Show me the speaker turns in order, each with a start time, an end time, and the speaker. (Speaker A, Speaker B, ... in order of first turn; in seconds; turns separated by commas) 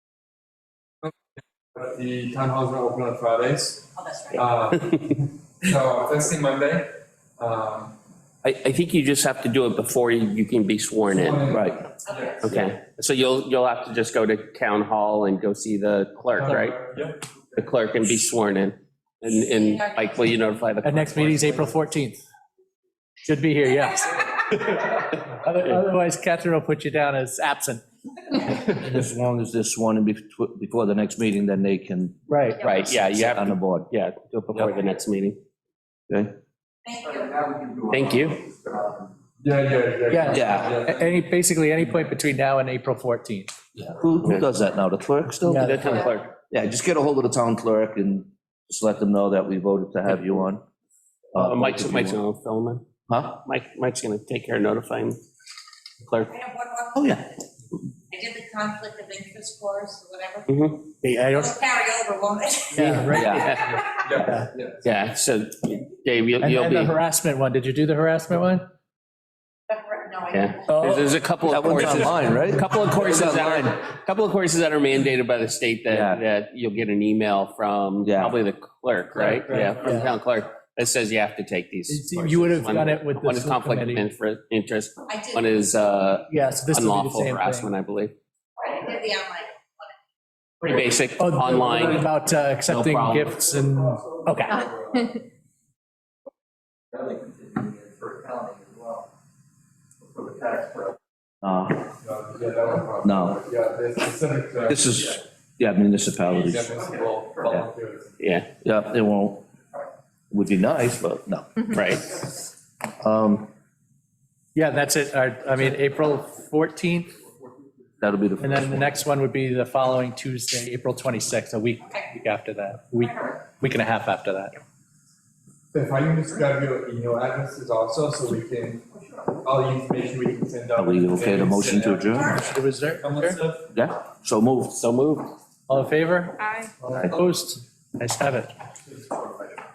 Speaker A: 1.7-3.9, Speaker B: 3.9-4.5, Speaker C: 4.3-5.0, Speaker A: 4.4-8.0, Speaker C: 8.4-11.5, Speaker A: 11.1-12.5, Speaker D: 11.5-11.8, Speaker B: 12.1-12.6, Speaker C: 12.4-16.8, Speaker A: 16.4-17.2, Speaker C: 17.6-21.8, Speaker B: 19.2-20.6, Speaker E: 20.8-22.2, Speaker E: 23.2-27.8, Speaker D: 28.6-32.2, Speaker E: 32.3-32.6, Speaker C: 32.6-35.4, Speaker D: 32.7-33.9, Speaker B: 36.9-37.5, Speaker F: 37.4-38.0, Speaker C: 37.9-38.4, Speaker A: 39.4-41.2, Speaker E: 40.1-43.5, Speaker D: 40.3-40.7, Speaker D: 43.8-45.9, Speaker E: 45.4-45.9, Speaker C: 45.5-46.4, Speaker D: 46.5-50.6, Speaker D: 51.3-52.2, Speaker C: 51.3-52.9, Speaker D: 53.1-53.4, Speaker C: 53.4-55.2, Speaker C: 56.0-56.3, Speaker B: 56.3-57.3, Speaker D: 57.0-57.2, Speaker B: 58.1-63.0, Speaker C: 60.5-60.9, Speaker E: 61.0-61.6, Speaker E: 62.7-63.5, Speaker C: 63.0-63.8, Speaker D: 63.1-63.6, Speaker B: 63.5-64.1, Speaker A: 64.0-64.9, Speaker E: 64.2-64.5, Speaker C: 64.8-67.0, Speaker E: 66.4-68.7, Speaker B: 69.7-70.9, Speaker C: 70.3-88.2, Speaker E: 70.7-71.1, Speaker D: 71.4-73.8, Speaker B: 71.8-72.2, Speaker D: 75.9-76.2, Speaker D: 78.0-78.4, Speaker E: 79.5-80.1, Speaker E: 81.9-84.1, Speaker B: 85.1-85.7, Speaker E: 86.3-87.7, Speaker B: 88.6-90.0, Speaker C: 90.6-92.1, Speaker E: 91.2-94.7, Speaker C: 92.7-93.4, Speaker B: 94.5-95.2, Speaker F: 96.9-99.0, Speaker F: 100.2-100.9, Speaker D: 101.4-101.9, Speaker A: 102.0-104.9, Speaker D: 103.0-103.4, Speaker D: 104.7-106.7, Speaker A: 106.3-108.2, Speaker C: 108.2-108.5, Speaker D: 108.6-109.5, Speaker D: 110.3-111.6, Speaker C: 111.7-112.2, Speaker D: 113.0-113.5, Speaker E: 114.5-117.1, Speaker D: 118.0-118.8, Speaker E: 118.4-124.6, Speaker B: 123.0-123.3, Speaker A: 125.7-128.9, Speaker A: 129.4-132.2, Speaker D: 130.8-132.4, Speaker B: 132.1-132.4, Speaker E: 132.3-133.4, Speaker A: 133.0-133.7, Speaker D: 133.7-134.8, Speaker C: 134.8-135.3, Speaker E: 135.7-138.5